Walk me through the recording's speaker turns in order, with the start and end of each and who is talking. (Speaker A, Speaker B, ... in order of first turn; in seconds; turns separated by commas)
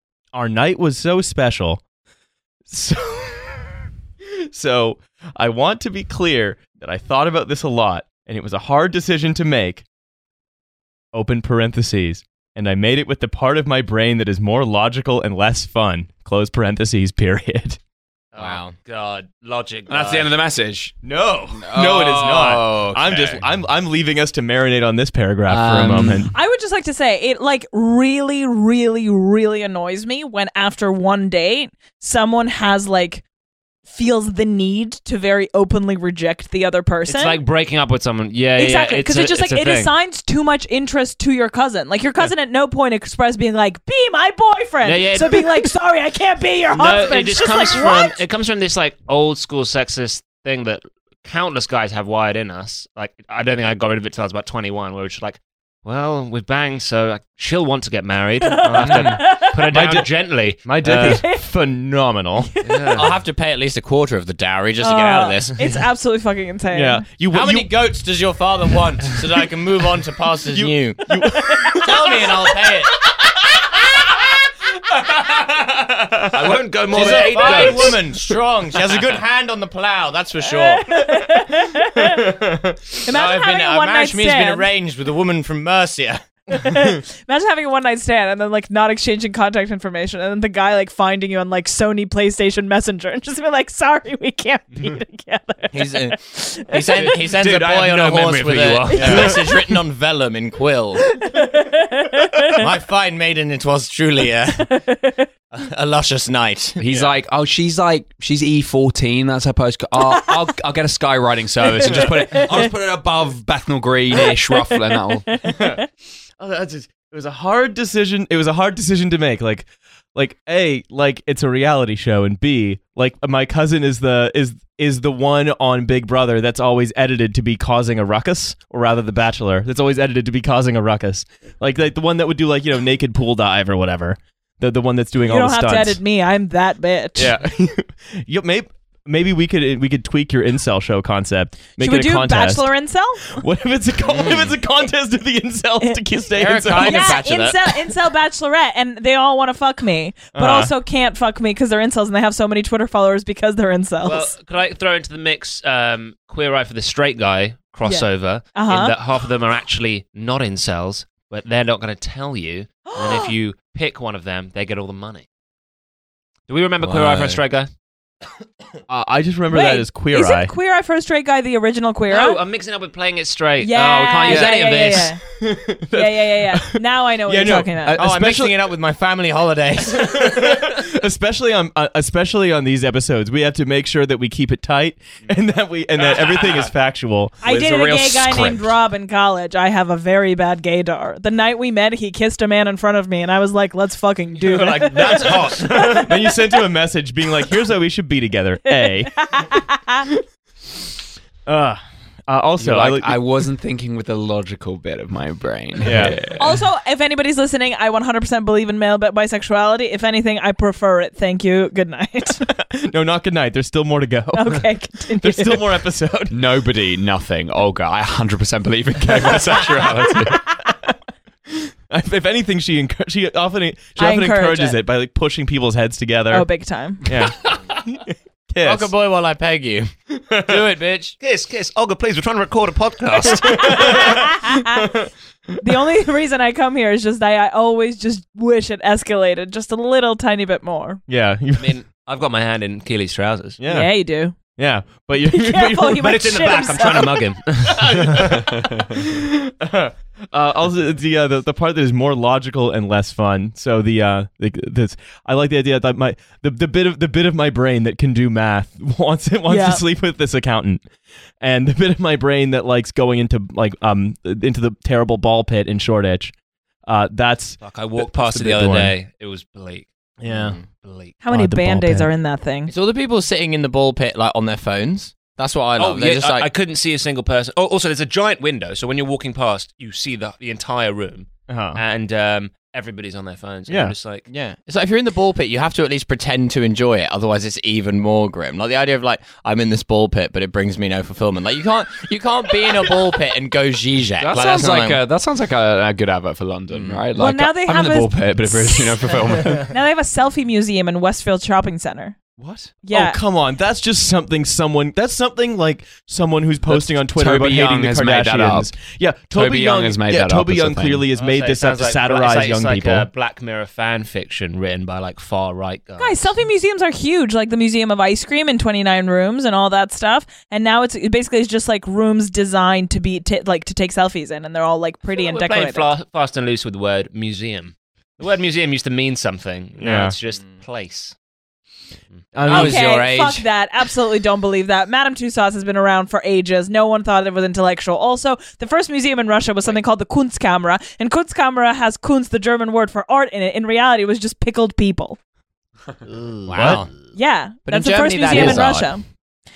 Speaker A: 0.3-1.8, Speaker A: 2.7-3.7, Speaker A: 4.4-9.8, Speaker A: 11.1-17.8, Speaker B: 18.3-20.3, Speaker C: 18.4-18.7, Speaker D: 19.9-20.9, Speaker A: 21.0-26.3, Speaker D: 21.5-23.4, Speaker C: 22.4-23.0, Speaker D: 25.5-26.3, Speaker E: 26.3-33.2, Speaker E: 33.9-37.4, Speaker B: 37.1-39.9, Speaker E: 38.5-48.2, Speaker B: 44.8-45.7, Speaker B: 46.7-61.2, Speaker E: 58.4-59.5, Speaker A: 58.7-60.1, Speaker A: 60.6-62.5, Speaker E: 60.9-61.4, Speaker E: 62.4-63.1, Speaker B: 62.6-63.1, Speaker C: 62.9-65.6, Speaker E: 64.8-67.0, Speaker A: 66.7-67.7, Speaker C: 67.3-73.7, Speaker A: 70.5-72.0, Speaker E: 71.1-71.9, Speaker A: 75.1-76.6, Speaker B: 76.3-78.1, Speaker C: 76.9-81.1, Speaker E: 80.4-82.2, Speaker C: 83.0-86.3, Speaker E: 83.0-84.7, Speaker E: 86.5-97.1, Speaker C: 95.7-101.1, Speaker B: 96.7-99.5, Speaker E: 98.9-99.6, Speaker E: 101.2-102.6, Speaker C: 102.5-104.8, Speaker E: 104.7-105.2, Speaker C: 105.5-106.8, Speaker D: 106.8-115.4, Speaker E: 111.8-112.7, Speaker E: 114.5-115.8, Speaker A: 115.4-115.8, Speaker A: 116.4-136.0, Speaker E: 135.2-137.3, Speaker A: 137.2-142.7, Speaker E: 141.8-143.4, Speaker A: 143.2-147.1, Speaker C: 144.1-144.6, Speaker C: 146.3-147.9, Speaker E: 146.7-154.3, Speaker A: 150.3-150.7, Speaker B: 154.0-165.2, Speaker E: 157.8-158.9, Speaker E: 162.8-163.3, Speaker B: 166.5-167.7, Speaker C: 166.8-167.4, Speaker A: 168.9-170.5, Speaker E: 169.5-172.4, Speaker B: 172.1-175.1, Speaker E: 173.6-175.2, Speaker A: 175.3-178.6, Speaker E: 175.9-178.0, Speaker C: 177.8-180.6, Speaker A: 179.9-187.4, Speaker D: 186.0-186.7, Speaker E: 187.4-196.5, Speaker D: 187.4-188.8, Speaker A: 194.5-199.1, Speaker B: 194.7-195.5, Speaker E: 198.8-200.1, Speaker A: 201.4-203.2, Speaker D: 202.6-206.6, Speaker A: 205.8-206.1, Speaker E: 206.4-212.4, Speaker A: 212.5-214.6, Speaker E: 214.3-215.7, Speaker A: 215.2-216.4, Speaker D: 216.3-220.4, Speaker A: 219.1-220.9, Speaker A: 221.5-226.4, Speaker E: 224.0-224.8, Speaker E: 226.3-227.0, Speaker A: 227.1-228.9, Speaker C: 228.6-231.2, Speaker A: 230.3-230.6, Speaker B: 231.2-234.2, Speaker E: 233.2-234.8, Speaker A: 233.5-235.1, Speaker E: 235.6-241.0, Speaker A: 241.1-241.7, Speaker B: 241.6-243.6, Speaker A: 243.6-243.9, Speaker E: 243.6-244.3, Speaker A: 244.5-246.0, Speaker E: 245.2-247.2, Speaker B: 246.0-248.4, Speaker A: 247.8-248.3, Speaker A: 249.2-260.8, Speaker E: 259.5-259.8, Speaker A: 261.4-266.3, Speaker A: 266.9-268.9, Speaker B: 267.6-269.9, Speaker A: 270.2-270.6, Speaker C: 270.3-270.6, Speaker B: 270.7-271.2, Speaker E: 271.2-272.7, Speaker A: 271.3-272.1, Speaker C: 272.7-276.5, Speaker B: 275.8-284.3, Speaker A: 281.5-281.8, Speaker A: 283.7-283.9, Speaker C: 284.3-295.0, Speaker D: 294.2-299.7, Speaker C: 296.7-297.0, Speaker E: 297.1-302.1, Speaker A: 302.4-313.1, Speaker E: 302.8-303.2, Speaker D: 306.6-308.8, Speaker D: 309.3-311.1, Speaker B: 311.1-316.4, Speaker E: 316.0-325.9, Speaker B: 325.0-331.1, Speaker A: 329.8-330.1, Speaker A: 332.3-332.8, Speaker C: 332.4-333.4, Speaker E: 332.5-345.2, Speaker C: 346.1-346.9, Speaker A: 346.5-346.8, Speaker E: 347.1-349.0, Speaker C: 347.6-348.9